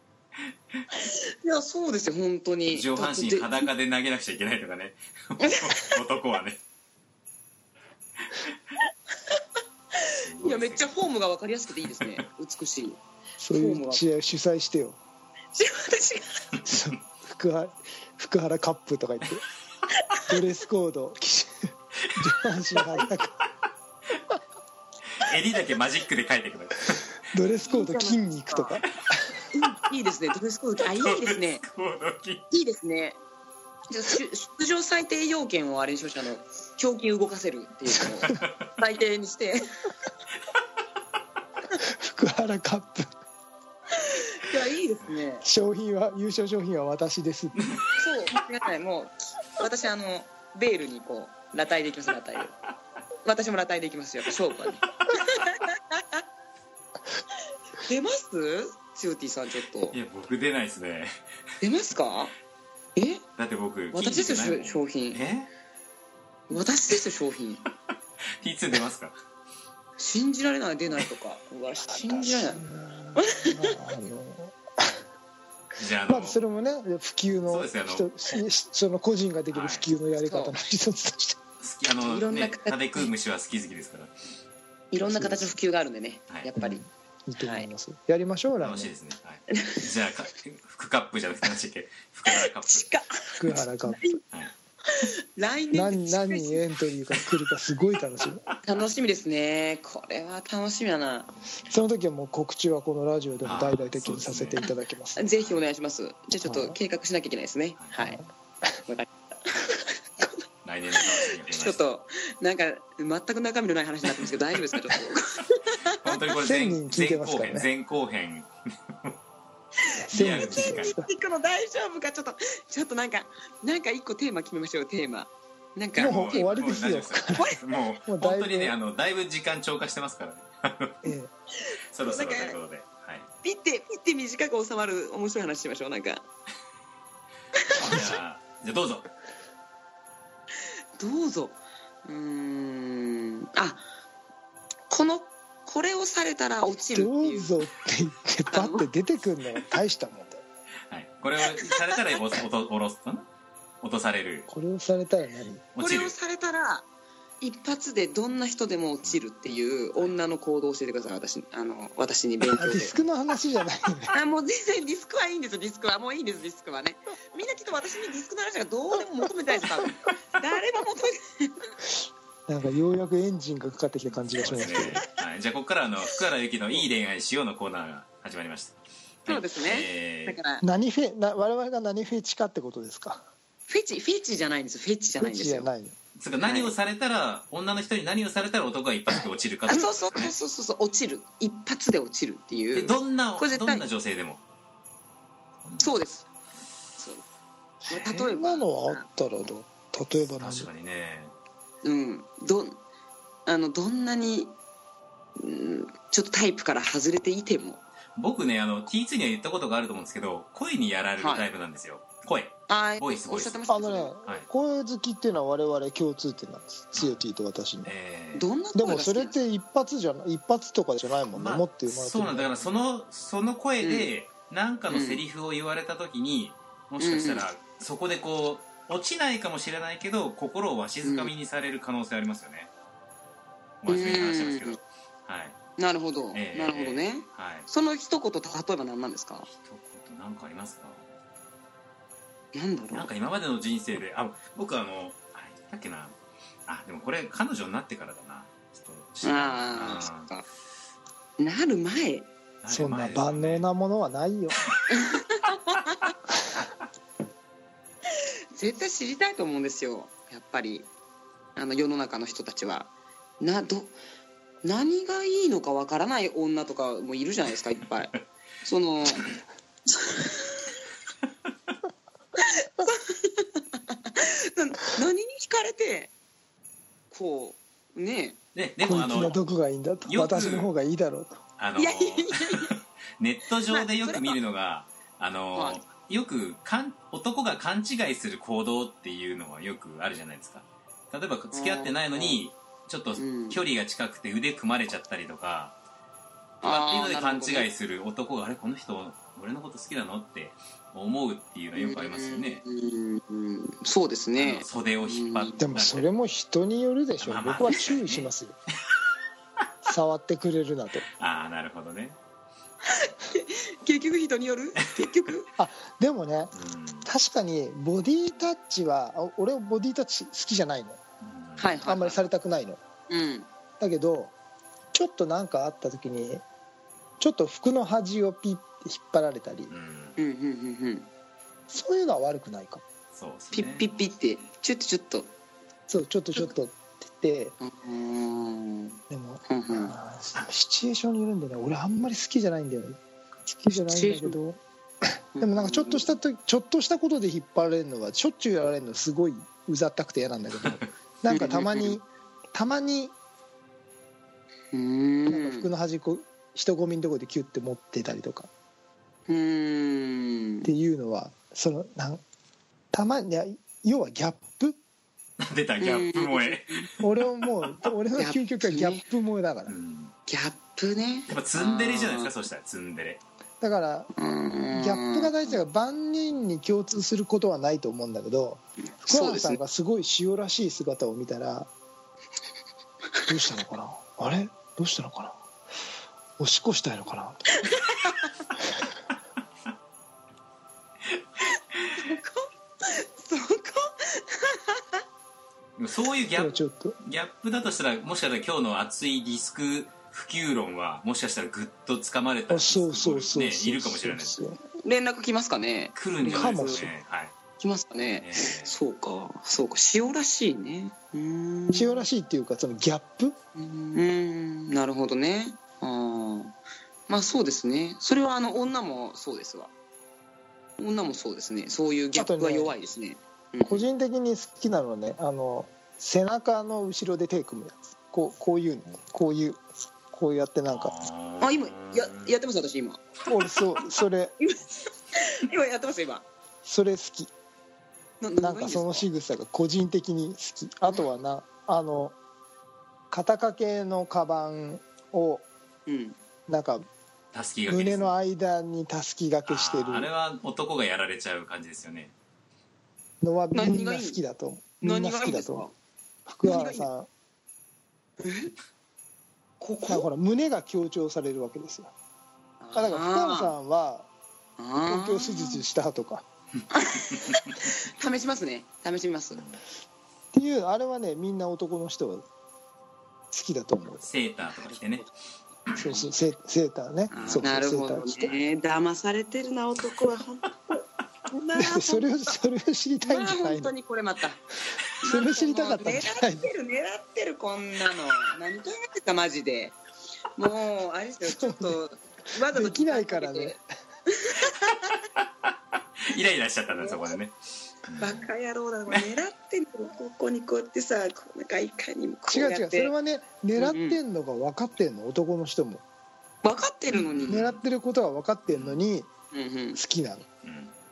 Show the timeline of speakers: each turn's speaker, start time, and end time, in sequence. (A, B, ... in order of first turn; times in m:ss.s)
0:01.0-0:03.7 A
0:02.7-0:06.6 B
0:05.4-0:05.9 A
0:10.0-0:13.0 A
0:10.2-0:10.9 B
0:13.4-0:15.0 C
0:13.5-0:14.0 A
0:15.5-0:16.4 A
0:16.6-0:19.4 C
0:20.3-0:23.4 C
0:25.1-0:27.1 B
0:27.3-0:29.4 C
0:27.6-0:28.8 A
0:29.5-0:31.6 A
0:31.0-0:32.4 B
0:32.5-0:33.2 A
0:33.9-0:39.6 A
0:41.8-0:43.1 C
0:43.9-0:45.4 A
0:45.4-0:47.7 C
0:48.0-0:52.5 A
0:53.2-0:56.2 A
0:57.8-1:00.0 A
0:59.9-1:01.1 B
1:01.6-1:02.3 A
1:03.0-1:03.2 A
1:03.4-1:05.5 B
1:03.9-1:05.2 A
1:06.5-1:07.6 A
1:08.4-1:09.2 B
1:10.0-1:12.6 A
1:11.9-1:15.0 C
1:13.2-1:13.8 A
1:15.8-1:16.4 B
1:16.1-1:21.4 C
1:17.4-1:18.1 B
1:19.5-1:19.8 B
1:20.2-1:20.5 A
1:21.6-1:24.1 B
1:22.0-1:23.1 A
1:24.9-1:26.8 A
1:25.1-1:25.5 C
1:26.6-1:28.9 C
1:27.4-1:27.7 A
1:28.6-1:32.9 B
1:29.5-1:29.8 A
1:32.3-1:34.2 A
1:33.4-1:34.0 C
1:34.9-1:36.6 A
1:35.7-1:38.4 C
1:38.6-1:41.3 A
1:41.7-1:45.2 C
1:43.4-1:44.7 B
1:45.2-1:48.2 A
1:46.4-1:46.8 C
1:48.9-1:50.4 A
1:50.6-1:51.8 B
1:51.0-1:56.2 A
1:56.0-1:58.5 B
1:56.4-1:57.7 C
2:00.1-2:01.1 C
2:00.1-2:01.0 B
2:00.1-2:06.6 A
2:06.0-2:08.7 C
2:06.0-2:11.1 B
2:11.0-2:11.3 C
2:11.9-2:13.3 B
2:12.0-2:12.6 A
2:13.4-2:16.2 A
2:17.7-2:18.0 A
2:17.7-2:19.1 B
2:17.8-2:18.1 C
2:21.0-2:23.8 A
2:24.9-2:27.5 A
2:26.9-2:30.4 C
2:28.5-2:28.9 A
2:30.9-2:33.3 B
2:31.6-2:32.0 A
2:33.8-2:34.5 B
2:34.5-2:35.6 C
2:35.7-2:36.1 B
2:35.8-2:36.8 A
2:37.4-2:43.0 A
2:42.5-2:44.1 C
2:44.1-2:51.7 A
2:52.5-2:55.0 C
2:54.4-3:00.4 B
2:59.3-3:00.6 A
3:00.6-3:03.2 C
3:03.7-3:05.7 A
3:05.2-3:05.9 C
3:06.2-3:10.3 B
3:06.4-3:06.7 A
3:09.7-3:13.8 A
3:12.7-3:14.4 B
3:15.6-3:15.9 B
3:15.8-3:16.2 A
3:17.0-3:17.2 A
3:17.9-3:19.0 A
3:18.0-3:20.7 C
3:20.4-3:21.3 B
3:21.8-3:22.8 A
3:23.4-3:24.5 A
3:25.4-3:27.8 A
3:28.2-3:33.6 B
3:31.2-3:31.4 A
3:32.7-3:34.1 A
3:33.7-3:37.9 C
3:36.9-3:37.2 B
3:37.8-3:38.4 B
3:38.3-3:39.4 A
3:38.7-3:42.7 C
3:41.3-3:52.7 B
3:43.8-3:44.1 A
3:44.9-3:45.2 A
3:47.0-3:47.4 A
3:51.0-3:51.3 A
3:53.8-3:55.6 B
3:53.9-3:54.8 A
3:55.8-3:59.5 A
3:56.3-3:57.7 B
3:59.5-4:01.1 B
4:02.5-4:03.1 A
4:02.9-4:06.2 B
4:06.7-4:10.3 B
4:09.2-4:10.4 A
4:11.4-4:12.3 A
4:12.6-4:13.6 B
4:12.7-4:14.6 C
4:14.9-4:16.1 A
4:18.5-4:20.9 A
4:21.6-4:23.9 A
4:24.6-4:29.3 A
4:29.9-4:30.6 A
4:32.4-4:36.1 A
4:37.1-4:38.4 A
4:38.5-4:39.4 B
4:38.8-4:41.4 C
4:40.1-4:40.7 B
4:41.6-4:55.7 B
4:41.8-4:42.7 A
4:43.7-4:44.4 A
4:45.5-4:45.8 A
4:51.5-4:52.4 A
4:53.2-4:53.6 A
4:56.6-4:57.7 A
4:56.6-5:02.6 B
5:01.8-5:05.6 A
5:04.4-5:06.1 B
5:05.6-5:08.5 C
5:07.2-5:08.3 B
5:09.8-5:11.0 C
5:11.2-5:12.2 B
5:12.9-5:15.5 A
5:15.6-5:16.5 C
5:16.5-5:17.1 B
5:17.0-5:21.0 C
5:21.2-5:21.7 B
5:21.6-5:22.3 A
5:21.8-5:22.8 C
5:23.1-5:23.5 A
5:23.8-5:24.3 C
5:24.9-5:26.4 C
5:27.2-5:29.7 C
5:29.7-5:30.2 B
5:30.2-5:31.1 A
5:31.7-5:32.8 C
5:33.1-5:33.9 B
5:33.5-5:35.3 A
5:35.9-5:37.5 C
5:37.6-5:39.9 A
5:39.1-5:43.0 C
5:43.5-5:44.4 A
5:43.7-5:53.1 C
5:45.3-5:46.1 A
5:51.3-5:52.0 A
5:54.7-5:55.7 A
5:55.3-5:58.5 C
5:59.3-6:00.7 A
6:00.6-6:02.2 C
6:02.9-6:04.8 C
6:05.4-6:06.9 B
6:05.8-6:06.9 A
6:07.0-6:09.7 C
6:08.2-6:09.0 A
6:09.7-6:10.1 B
6:10.3-6:12.3 A
6:11.3-6:13.2 B
6:13.6-6:14.1 C
6:14.2-6:15.6 A
6:14.7-6:21.7 C
6:19.0-6:19.6 A
6:23.3-6:25.4 C
6:26.4-6:27.5 C
6:27.6-6:28.3 A
6:32.0-6:35.0 A
6:35.8-6:44.4 B
6:36.3-6:37.0 C
6:42.5-6:44.6 C
6:44.8-6:46.8 A
6:45.9-6:47.3 B
6:46.3-6:46.9 C
6:47.6-6:52.0 A
6:48.2-6:48.7 B
6:51.7-6:53.4 C
6:53.6-6:56.5 A
6:57.1-6:59.7 A
7:00.8-7:03.8 A
7:02.2-7:02.7 C
7:03.6-7:10.9 C
7:10.7-7:12.3 B
7:11.4-7:13.0 A
7:13.3-7:14.3 C
7:14.4-7:16.2 A
7:16.6-7:17.3 C
7:18.2-7:19.1 A
7:18.4-7:22.2 C
7:23.1-7:25.4 C
7:25.8-7:26.2 A
7:26.5-7:26.8 C
7:27.3-7:28.1 B
7:27.7-7:30.1 C
7:29.4-7:32.1 B
7:33.2-7:35.7 C
7:33.5-7:34.2 A
7:34.8-7:35.7 A
7:36.3-7:37.1 C
7:36.4-7:36.9 A
7:38.2-7:38.5 A
7:39.6-7:40.1 A
7:39.9-7:41.9 C
7:42.6-7:43.5 A
7:42.7-7:44.1 C
7:44.6-7:45.6 A
7:44.8-7:46.2 C
7:46.7-7:49.4 A
7:50.3-7:52.2 C
7:53.3-7:54.1 C
7:54.0-7:55.0 B
7:55.8-7:58.3 C
7:57.1-7:57.5 B
7:57.1-8:02.3 A
8:01.6-8:03.7 C
8:03.0-8:04.4 A
8:05.0-8:09.8 A
8:05.0-8:06.5 C
8:10.4-8:13.6 A
8:11.3-8:11.8 C
8:12.5-8:13.6 C
8:14.1-8:14.9 A
8:16.0-8:17.3 B
8:16.7-8:17.1 A
8:17.8-8:18.3 B
8:18.0-8:22.9 A
8:22.3-8:25.8 C
8:23.6-8:24.0 A
8:26.4-8:27.5 A
8:26.9-8:27.6 B
8:27.3-8:29.1 C
8:28.5-8:28.8 B
8:29.3-8:29.8 A
8:29.7-8:30.2 C
8:30.4-8:30.7 B